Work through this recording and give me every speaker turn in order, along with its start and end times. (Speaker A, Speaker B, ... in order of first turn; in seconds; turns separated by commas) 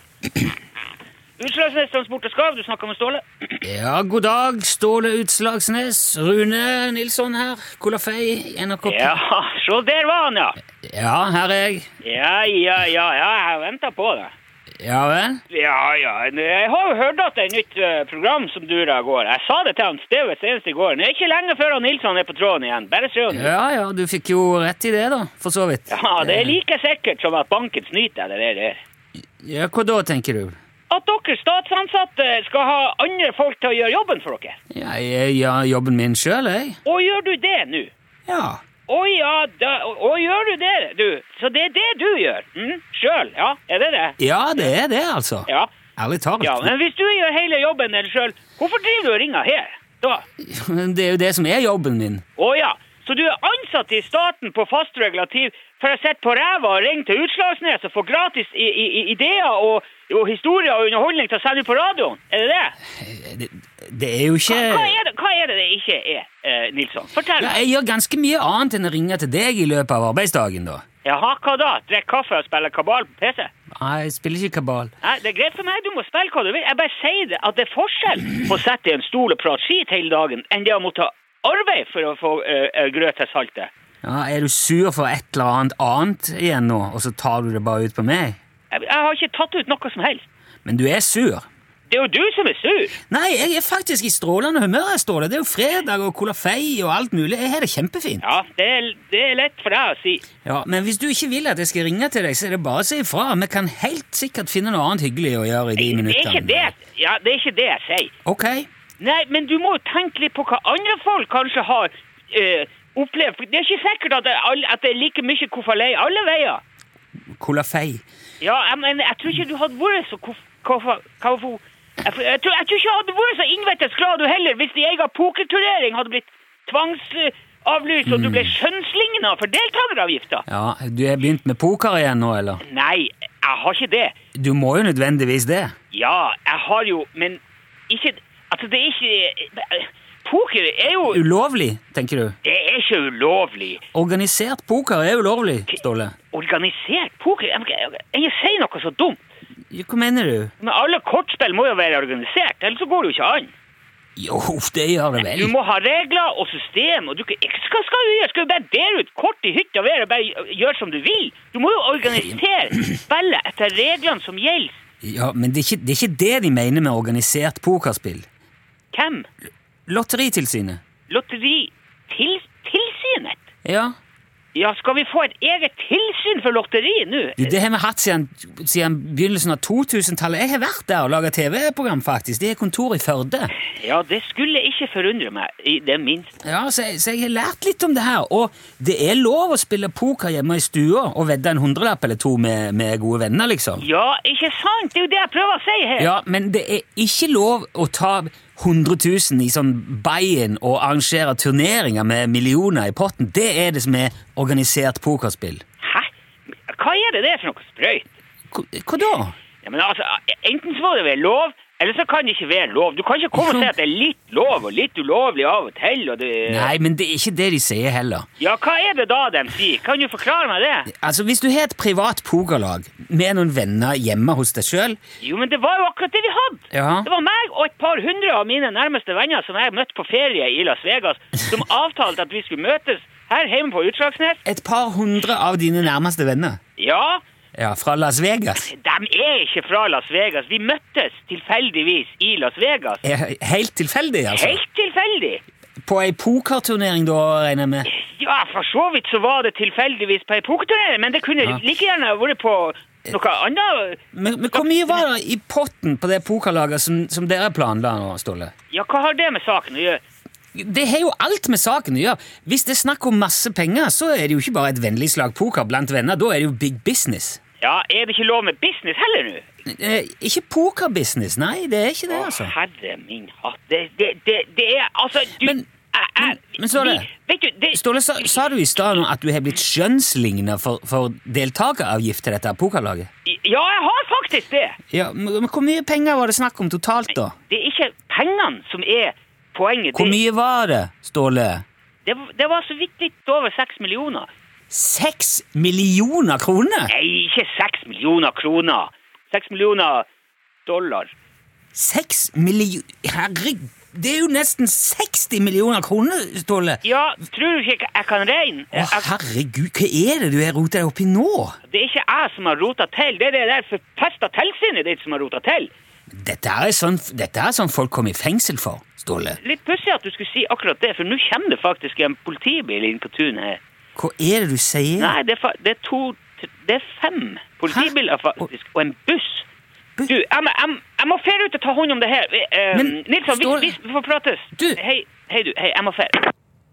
Speaker A: 1.4-3.6, Speaker B: 3.6-9.2, Speaker A: 8.8-10.6, Speaker B: 10.8-11.9, Speaker A: 12.0-14.3, Speaker B: 14.8-15.4, Speaker A: 15.5-23.5, Speaker B: 23.3-26.6, Speaker A: 25.9-28.8, Speaker B: 29.4-30.6, Speaker A: 30.9-34.6, Speaker B: 34.7-36.8, Speaker A: 36.9-37.9, Speaker B: 38.3-38.6, Speaker A: 38.9-44.7, Speaker B: 44.2-46.7, Speaker A: 46.4-50.2, Speaker B: 50.4-52.2, Speaker A: 52.4-62.8, Speaker B: 63.0-64.9, Speaker A: 64.5-67.6, Speaker B: 67.4-70.8, Speaker A: 71.0-73.5, Speaker B: 73.7-74.9, Speaker A: 75.0-83.7, Speaker B: 84.0-88.4, Speaker A: 88.7-90.3, Speaker B: 90.7-91.5, Speaker A: 91.9-93.0, Speaker B: 93.1-98.3, Speaker A: 98.2-100.2, Speaker B: 100.5-106.7, Speaker A: 105.8-108.1, Speaker B: 108.3-108.7, Speaker A: 109.0-116.6, Speaker B: 117.4-118.0, Speaker A: 118.4-130.4, Speaker B: 128.1-128.6, Speaker B: 130.5-132.6, Speaker A: 132.6-134.2, Speaker B: 134.3-135.7, Speaker A: 135.9-141.2, Speaker B: 141.1-142.3, Speaker A: 142.4-143.8, Speaker B: 143.9-146.2, Speaker A: 146.3-149.2, Speaker B: 149.7-150.5, Speaker A: 150.6-153.5, Speaker B: 154.2-155.5, Speaker A: 155.2-164.8, Speaker B: 165.0-168.3, Speaker A: 168.9-169.3, Speaker B: 169.9-170.8, Speaker A: 171.1-173.4, Speaker B: 173.7-173.9, Speaker A: 174.5-177.6, Speaker B: 177.4-183.5, Speaker A: 183.6-186.3, Speaker B: 186.4-193.8, Speaker A: 193.8-196.1, Speaker B: 196.0-205.6, Speaker A: 205.8-206.1, Speaker A: 206.7-208.1, Speaker B: 208.5-209.3, Speaker A: 209.6-216.7, Speaker B: 213.3-213.7, Speaker B: 216.5-218.3, Speaker A: 218.4-220.9, Speaker B: 220.9-225.0, Speaker A: 225.2-234.4, Speaker B: 226.7-227.1, Speaker B: 234.5-236.6, Speaker A: 236.8-237.2, Speaker B: 237.6-238.7, Speaker A: 238.6-243.0, Speaker B: 243.0-244.6, Speaker A: 244.3-245.4, Speaker B: 245.8-247.9, Speaker A: 247.9-255.0, Speaker B: 254.1-258.5, Speaker A: 258.7-260.0, Speaker B: 260.5-267.4, Speaker A: 267.6-269.4, Speaker B: 269.7-272.5, Speaker A: 272.1-278.6, Speaker B: 275.4-275.6, Speaker B: 276.2-277.1, Speaker B: 277.7-283.1, Speaker A: 283.2-284.8, Speaker B: 284.9-287.4, Speaker A: 287.3-290.2, Speaker B: 289.9-291.6, Speaker A: 292.1-294.3, Speaker B: 294.7-296.9, Speaker A: 296.9-300.1, Speaker A: 300.7-301.1, Speaker B: 301.7-306.8, Speaker A: 306.8-309.1, Speaker B: 308.7-311.6, Speaker A: 311.7-315.7, Speaker B: 316.1-319.4, Speaker A: 319.4-323.6, Speaker B: 324.0-325.2, Speaker A: 325.0-329.5, Speaker B: 327.7-328.5, Speaker A: 330.1-336.3, Speaker B: 332.7-333.8